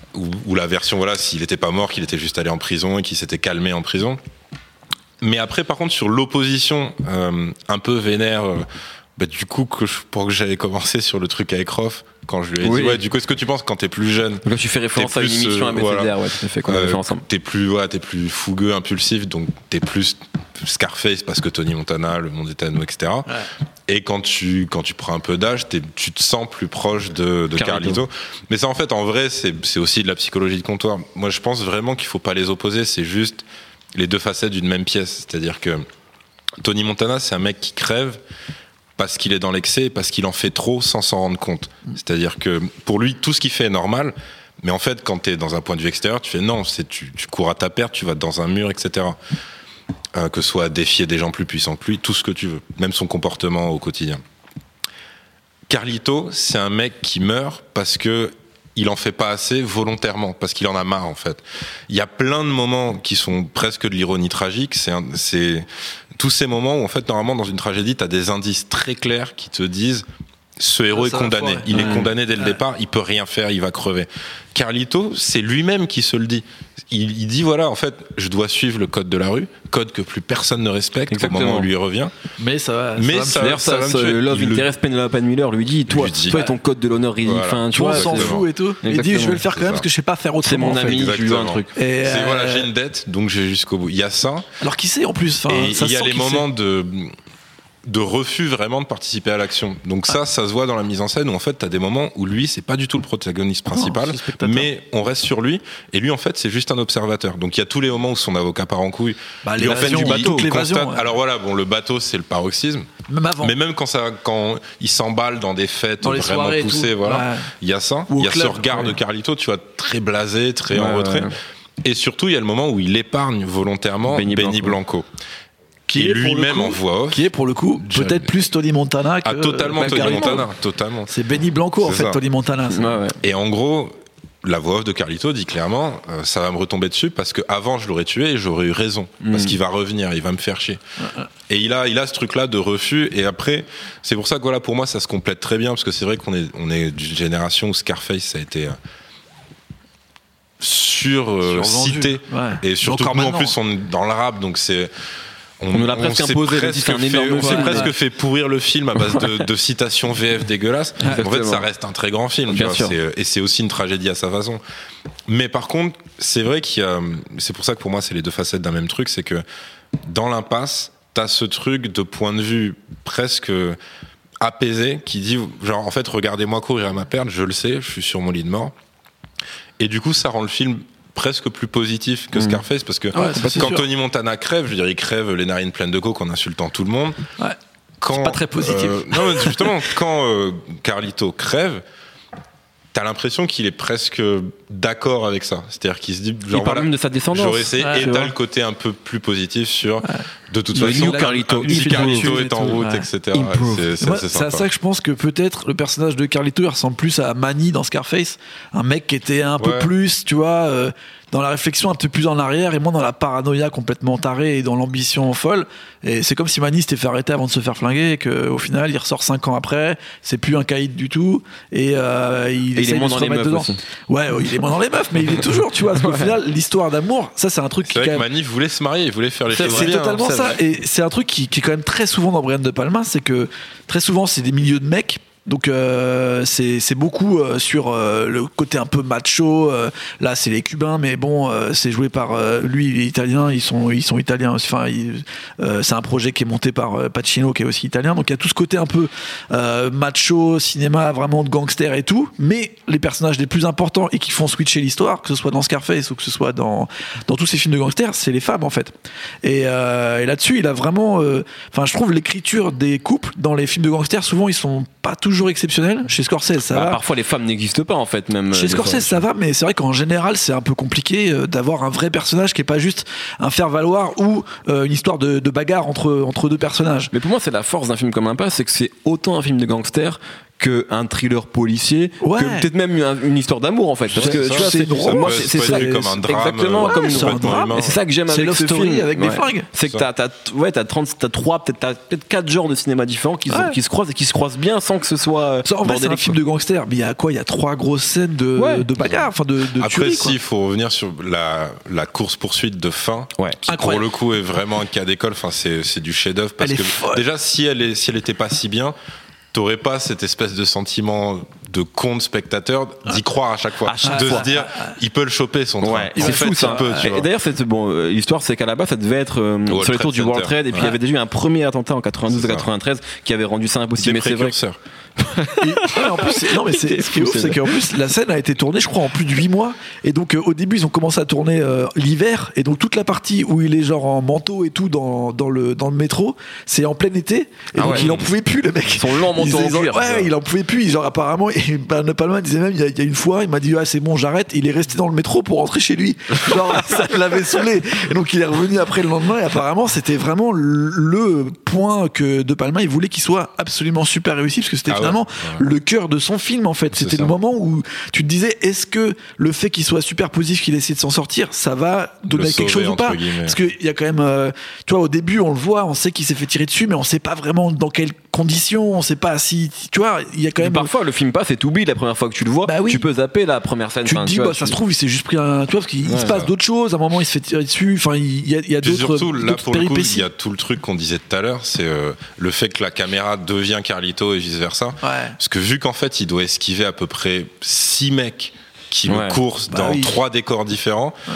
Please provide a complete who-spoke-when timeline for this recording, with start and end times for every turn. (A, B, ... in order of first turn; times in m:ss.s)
0:00.1-0:04.2 A
0:05.2-0:08.6 A
0:09.2-0:14.4 A
0:12.6-0:13.0 B
0:14.4-0:17.2 B
0:15.0-0:16.1 A
0:16.7-0:33.4 A
0:27.6-0:28.0 B
0:34.0-0:35.8 A
0:36.6-0:38.2 A
0:39.0-0:49.2 A
0:50.1-0:54.2 A
0:55.7-1:10.0 A
1:10.6-1:22.1 A
1:11.0-1:12.6 C
1:11.7-1:12.1 B
1:21.1-1:21.7 B
1:22.4-1:23.6 C
1:23.0-1:24.7 A
1:23.4-1:29.4 B
1:25.9-1:26.6 A
1:27.2-1:28.5 A
1:27.7-1:31.0 C
1:29.5-1:29.9 A
1:30.4-1:31.7 B
1:30.9-1:34.5 A
1:31.8-1:32.7 C
1:34.6-1:36.4 C
1:35.5-1:37.1 A
1:37.9-1:52.9 A
1:43.7-1:44.7 C
1:49.4-1:51.1 C
1:49.7-1:50.2 B
1:53.1-1:53.5 C
1:53.4-2:05.1 A
1:56.0-1:57.5 C
1:58.1-1:59.0 C
2:00.7-2:01.3 B
2:04.1-2:04.8 B
2:05.9-2:10.5 C
2:05.9-2:07.3 A
2:07.8-2:08.4 A
2:09.2-2:11.1 A
2:09.8-2:10.4 B
2:11.1-2:13.0 C
2:11.8-2:12.2 A
2:12.7-2:13.2 B
2:13.2-2:20.8 A
2:19.2-2:19.6 B
2:21.5-2:28.8 A
2:30.6-2:34.9 A
2:31.4-2:33.5 C
2:35.6-2:44.6 A
2:35.7-2:37.9 B
2:37.4-2:37.9 C
2:41.0-2:41.7 B
2:42.5-2:43.0 B
2:45.3-2:49.4 A
2:50.0-2:53.8 A
2:54.4-2:58.7 A
2:59.8-3:07.2 A
3:02.4-3:02.6 B
3:03.1-3:03.8 C
3:03.2-3:03.8 B
3:08.0-3:11.8 A
3:08.1-3:09.8 C
3:12.9-3:24.7 A
3:16.5-3:18.3 B
3:17.8-3:18.1 C
3:20.8-3:22.5 B
3:20.8-3:23.1 C
3:23.3-3:23.9 B
3:24.0-3:48.3 C
3:29.6-3:29.9 A
3:42.8-3:43.8 B
3:46.0-3:46.4 B
3:47.9-3:50.6 A
3:49.5-3:50.6 B
3:49.6-4:27.0 C
4:26.7-4:29.2 B
4:28.5-4:37.1 C
4:37.1-4:56.4 B
4:42.2-4:42.7 C
4:44.1-4:48.0 A
4:44.2-4:46.2 C
4:46.8-4:49.7 C
4:53.5-4:53.8 C
4:55.7-5:00.4 C
4:58.6-4:58.9 B
4:59.0-5:09.0 A
5:03.4-5:03.6 B
5:03.7-5:04.1 C
5:06.6-5:07.2 C
5:09.5-5:17.3 A
5:13.9-5:14.5 B
5:14.0-5:14.9 C
5:15.8-5:24.6 B
5:16.2-5:17.1 C
5:19.7-5:20.9 A
5:22.3-5:22.7 A
5:24.0-5:24.8 A
5:25.2-5:27.8 B
5:25.6-6:10.9 C
5:37.8-5:38.2 B
5:37.8-5:38.3 A
5:39.0-5:40.3 B
5:46.4-5:47.0 B
5:54.9-5:55.7 A
5:56.9-5:57.4 A
6:02.3-6:03.6 A
6:10.6-6:14.8 B
6:12.6-6:13.0 C
6:14.1-6:20.3 C
6:16.1-6:16.5 B
6:18.8-6:31.2 A
6:25.0-6:25.4 C
6:29.1-6:29.4 B
6:29.7-6:30.1 C